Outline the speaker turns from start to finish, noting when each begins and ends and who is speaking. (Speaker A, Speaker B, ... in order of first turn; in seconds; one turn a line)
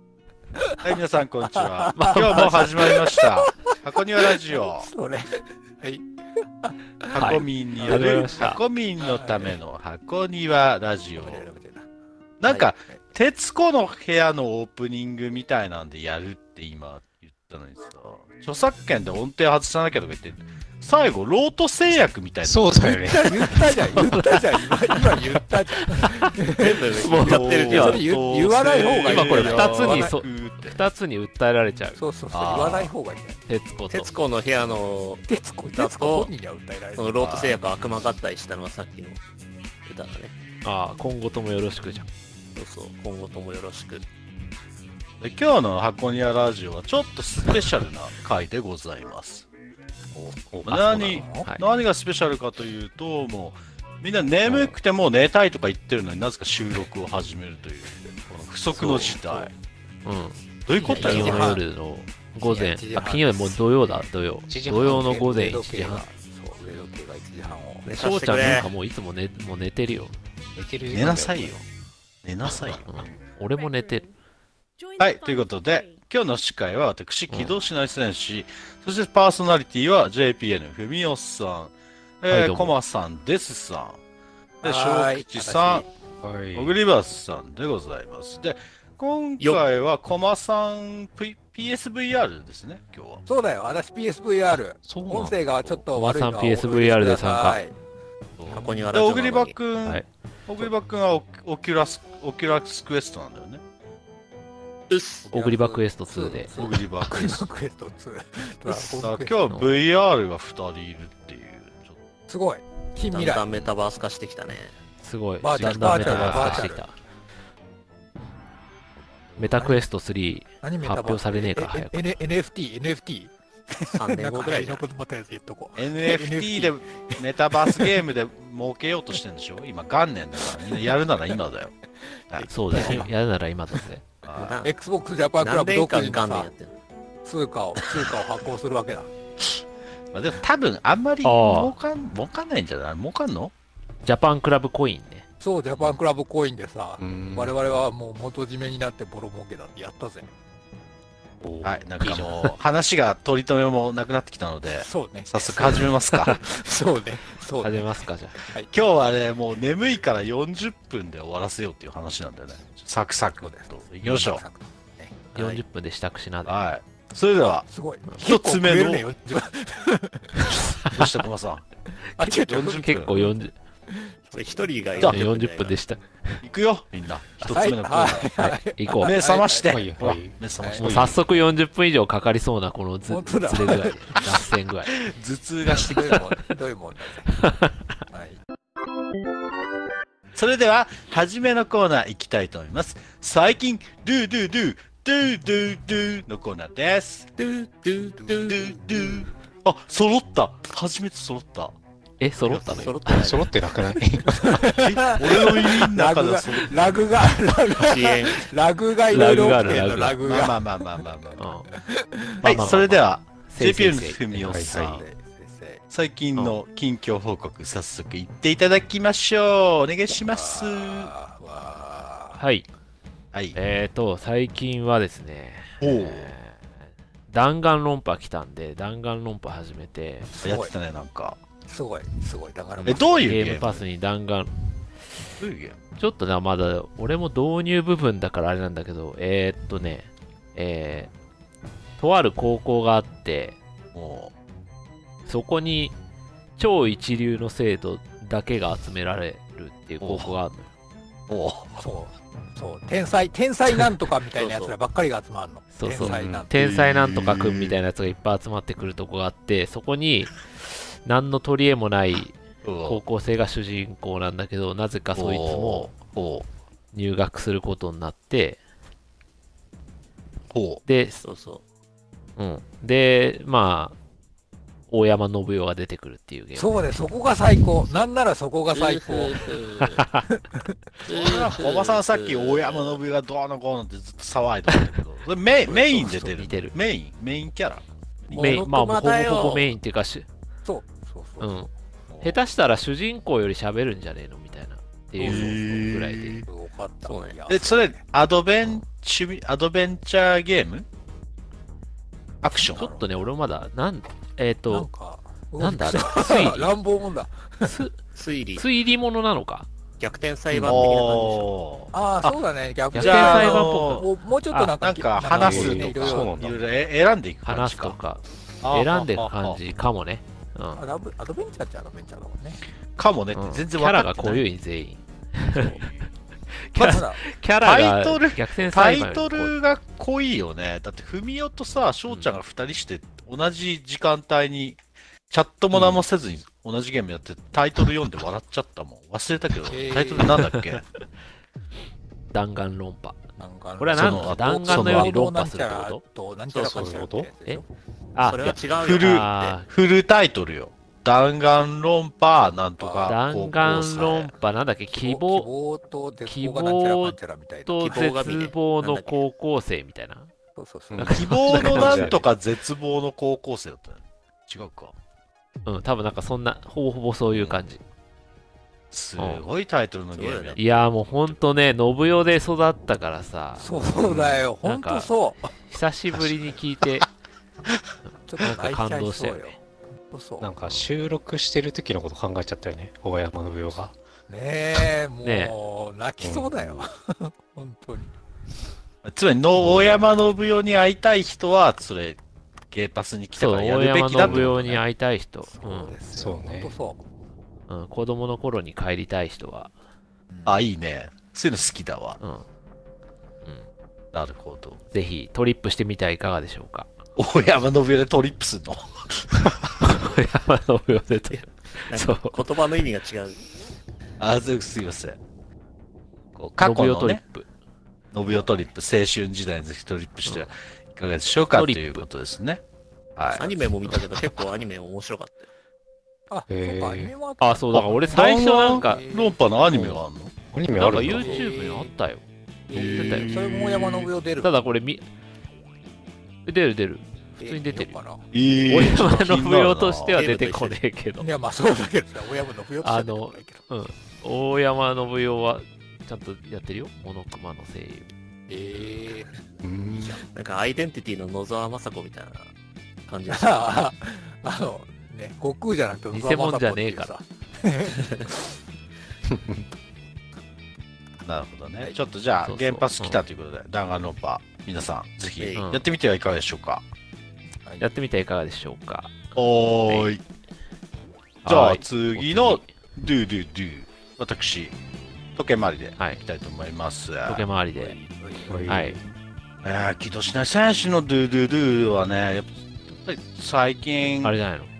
Speaker A: 0.8-4.9
Speaker B: 1.5-6.1
Speaker C: 1.9-2.7
Speaker B: 6.6-8.4
Speaker A: 7.1-11.5
Speaker C: 7.2-8.6
Speaker B: 9.0-9.6
Speaker B: 11.2-11.8
Speaker A: 12.4-22.9
Speaker D: 22.4-23.7
Speaker B: 22.8-30.2
Speaker C: 24.1-24.4
Speaker C: 24.9-25.2
Speaker C: 25.9-26.3
Speaker E: 26.5-28.0
Speaker C: 27.0-28.1
Speaker A: 27.2-30.8
Speaker C: 29.1-32.0
Speaker B: 32.0-33.4
Speaker A: 32.3-32.9
Speaker C: 33.5-34.1
Speaker E: 33.9-36.3
Speaker B: 35.3-37.5
Speaker E: 37.0-39.2
Speaker A: 37.2-37.6
Speaker E: 39.9-40.3
Speaker C: 40.6-42.1
Speaker E: 42.5-44.0
Speaker A: 45.2-49.5
Speaker D: 50.5-51.1
Speaker A: 50.6-59.5
Speaker B: 50.9-51.5
Speaker C: 54.5-54.7
Speaker C: 58.8-59.2
Speaker C: 60.0-66.1
Speaker A: 60.6-61.5
Speaker B: 60.8-61.6
Speaker E: 60.9-61.4
Speaker B: 62.4-63.6
Speaker D: 64.5-65.5
Speaker B: 64.9-67.9
Speaker E: 67.8-68.7
Speaker C: 67.9-70.1
Speaker D: 70.5-71.6
Speaker A: 70.9-71.7
Speaker A: 72.2-72.9
Speaker C: 72.6-74.1
Speaker A: 75.0-84.0
Speaker C: 77.3-77.6
Speaker C: 82.3-82.8
Speaker A: 84.6-85.9
Speaker B: 84.6-85.9
Speaker D: 86.2-86.8
Speaker A: 86.5-93.2
Speaker B: 93.3-97.8
Speaker D: 94.8-95.4
Speaker C: 95.9-97.6
Speaker A: 98.4-103.6
Speaker E: 98.5-99.6
Speaker E: 104.9-105.3
Speaker B: 105.3-109.4
Speaker C: 105.3-106.5
Speaker A: 106.6-107.5
Speaker A: 108.7-112.0
Speaker B: 112.3-113.5
Speaker E: 113.1-114.8
Speaker C: 115.0-116.9
Speaker B: 115.4-116.9
Speaker A: 115.6-116.7
Speaker C: 119.4-122.1
Speaker B: 120.6-128.0
Speaker E: 124.0-124.8
Speaker A: 125.8-131.8
Speaker B: 130.5-130.9
Speaker A: 132.3-133.1
Speaker C: 132.4-134.1
Speaker A: 134.2-134.6
Speaker E: 134.3-134.7
Speaker B: 134.6-136.5
Speaker E: 135.4-136.7
Speaker B: 137.2-139.1
Speaker A: 140.1-143.5
Speaker C: 141.2-141.7
Speaker C: 144.1-145.3
Speaker B: 145.4-150.3
Speaker D: 147.0-147.5
Speaker D: 151.4-152.5
Speaker A: 151.6-156.4
Speaker B: 154.8-158.7
Speaker C: 157.6-158.4
Speaker A: 158.7-164.4
Speaker B: 163.4-165.2
Speaker C: 165.3-166.6
Speaker E: 165.3-165.6
Speaker A: 166.4-169.1
Speaker B: 167.7-170.6
Speaker A: 170.8-171.7
Speaker B: 172.2-173.3
Speaker C: 172.4-173.5
Speaker A: 172.4-173.3
Speaker B: 173.9-175.0
Speaker E: 174.3-175.8
Speaker A: 175.0-175.2
Speaker C: 175.0-176.4
Speaker A: 176.4-181.3
Speaker B: 177.4-179.8
Speaker C: 178.8-179.2
Speaker D: 179.7-181.2
Speaker B: 180.6-180.8
Speaker C: 180.8-184.9
Speaker B: 183.1-184.4
Speaker A: 184.2-186.3
Speaker B: 185.8-187.3
Speaker C: 187.3-187.7
Speaker B: 188.1-188.4
Speaker A: 190.3-197.5
Speaker E: 197.5-198.4
Speaker A: 198.1-201.8
Speaker B: 198.2-198.8
Speaker C: 202.2-203.4
Speaker A: 202.4-202.9
Speaker E: 202.6-203.5
Speaker D: 203.2-204.6
Speaker B: 204.2-211.1
Speaker A: 204.7-207.3
Speaker E: 207.8-208.5
Speaker C: 209.1-210.2
Speaker A: 209.8-211.5
Speaker C: 211.4-211.7
Speaker B: 211.7-212.8
Speaker A: 212.4-215.1
Speaker C: 212.4-215.0
Speaker D: 214.4-215.0
Speaker B: 214.7-215.8
Speaker A: 215.9-221.1
Speaker B: 220.3-222.4
Speaker C: 222.4-222.7
Speaker C: 223.6-226.6
Speaker A: 225.8-226.3
Speaker C: 227.3-230.3
Speaker B: 230.3-230.7
Speaker A: 230.4-231.4
Speaker B: 231.7-233.2
Speaker C: 232.8-234.5
Speaker A: 232.9-233.9
Speaker A: 235.4-235.8
Speaker C: 236.0-241.1
Speaker C: 242.0-243.6
Speaker A: 243.9-244.3
Speaker C: 245.3-245.9
Speaker C: 246.6-250.7
Speaker A: 250.0-250.4
Speaker A: 251.3-251.8
Speaker B: 251.8-256.5
Speaker E: 254.4-254.7
Speaker C: 255.8-266.0
Speaker D: 256.0-256.4
Speaker A: 256.5-257.8
Speaker A: 262.6-263.0
Speaker A: 265.1-266.5
Speaker C: 266.9-268.6
Speaker A: 270.5-270.8
Speaker C: 270.9-271.2
Speaker E: 271.2-271.6
Speaker C: 272.4-274.0
Speaker C: 274.9-277.1
Speaker B: 276.6-280.8
Speaker E: 278.7-280.0
Speaker C: 279.8-280.3
Speaker E: 281.1-283.0
Speaker A: 281.1-288.7
Speaker C: 285.7-286.8
Speaker E: 288.3-289.7
Speaker C: 288.3-290.3
Speaker B: 290.6-291.7
Speaker C: 291.4-291.7
Speaker A: 292.1-292.4
Speaker C: 292.2-296.4
Speaker A: 295.2-296.5
Speaker B: 295.2-295.8
Speaker B: 296.5-298.0
Speaker E: 297.1-297.4
Speaker A: 297.5-300.9
Speaker A: 302.4-302.9
Speaker B: 302.6-303.1
Speaker C: 302.8-304.9
Speaker B: 304.7-307.8
Speaker C: 305.6-306.8
Speaker C: 307.6-308.0
Speaker E: 308.1-308.7
Speaker C: 308.6-309.7
Speaker E: 310.0-311.5
Speaker A: 310.5-312.4
Speaker B: 311.9-316.5
Speaker C: 312.9-314.7
Speaker A: 312.9-314.1
Speaker A: 314.8-318.0
Speaker D: 315.3-316.6
Speaker C: 317.4-320.8
Speaker A: 318.6-319.6
Speaker B: 320.8-322.6
Speaker A: 323.0-324.4
Speaker C: 323.3-325.9
Speaker A: 325.6-326.1
Speaker C: 326.7-329.6
Speaker A: 326.8-327.0
Speaker B: 326.8-327.2
Speaker A: 327.6-334.8
Speaker C: 332.1-332.4
Speaker A: 335.3-340.9
Speaker C: 335.7-336.0
Speaker B: 339.6-340.4
Speaker C: 342.3-343.2
Speaker B: 343.4-347.6
Speaker C: 343.8-346.0
Speaker A: 343.9-345.3
Speaker E: 346.5-346.9
Speaker D: 346.7-347.3
Speaker C: 348.1-349.7
Speaker E: 348.2-349.6
Speaker A: 348.4-354.3
Speaker B: 352.8-353.2
Speaker C: 353.1-355.5
Speaker B: 355.0-358.0
Speaker C: 356.3-360.3
Speaker E: 357.8-359.2
Speaker B: 360.6-362.2
Speaker A: 361.0-364.9
Speaker C: 361.0-362.1
Speaker D: 361.5-362.2
Speaker C: 365.7-367.8
Speaker A: 367.3-367.6
Speaker A: 368.9-371.4
Speaker C: 369.2-369.4
Speaker E: 370.1-370.6
Speaker C: 370.6-373.7
Speaker B: 373.6-375.5
Speaker C: 374.6-375.1
Speaker C: 375.6-377.1
Speaker B: 378.3-379.6
Speaker C: 378.4-379.6
Speaker B: 380.1-380.5
Speaker D: 380.4-383.9
Speaker B: 384.3-388.1
Speaker C: 385.2-385.5
Speaker D: 386.2-386.9
Speaker A: 389.0-392.2
Speaker D: 389.6-390.0
Speaker A: 392.7-394.8
Speaker C: 393.4-396.0
Speaker D: 394.2-394.5
Speaker B: 395.5-397.0
Speaker D: 396.1-396.8
Speaker C: 397.7-399.7
Speaker B: 400.3-400.6
Speaker A: 400.4-402.2
Speaker A: 404.1-404.8
Speaker C: 404.9-406.9
Speaker A: 407.2-409.7
Speaker C: 409.8-412.4
Speaker E: 411.9-413.4
Speaker A: 414.2-415.2
Speaker A: 416.4-417.2
Speaker C: 416.6-417.5
Speaker A: 418.1-422.6
Speaker B: 418.2-418.7
Speaker C: 420.3-420.5
Speaker C: 421.4-422.1
Speaker A: 423.2-423.6
Speaker E: 423.3-425.5
Speaker B: 426.3-429.4
Speaker D: 426.5-427.1
Speaker C: 427.4-429.0
Speaker A: 427.7-430.3
Speaker D: 429.7-431.4
Speaker C: 430.8-433.4
Speaker E: 431.0-431.9
Speaker B: 431.4-431.6
Speaker B: 432.7-434.5
Speaker A: 432.7-434.1
Speaker C: 434.4-435.1
Speaker C: 436.5-438.0
Speaker B: 437.4-438.3
Speaker A: 438.3-440.2
Speaker C: 438.7-441.3
Speaker E: 440.1-440.8
Speaker B: 441.2-443.6
Speaker C: 442.8-448.1
Speaker B: 448.5-450.2
Speaker D: 449.6-450.2
Speaker E: 450.3-452.5
Speaker E: 453.1-453.8
Speaker B: 453.3-458.5
Speaker C: 456.1-457.1
Speaker D: 459.3-459.7
Speaker A: 461.2-466.8
Speaker C: 462.4-463.2
Speaker E: 465.4-465.6
Speaker C: 465.6-465.8
Speaker C: 467.8-469.3
Speaker A: 469.4-470.2
Speaker C: 469.9-470.1
Speaker A: 471.4-474.8
Speaker C: 471.4-472.7
Speaker A: 475.4-477.5
Speaker C: 477.3-478.0
Speaker B: 477.8-478.7
Speaker D: 478.5-479.0
Speaker C: 478.7-479.0
Speaker A: 479.6-484.4
Speaker C: 484.2-484.7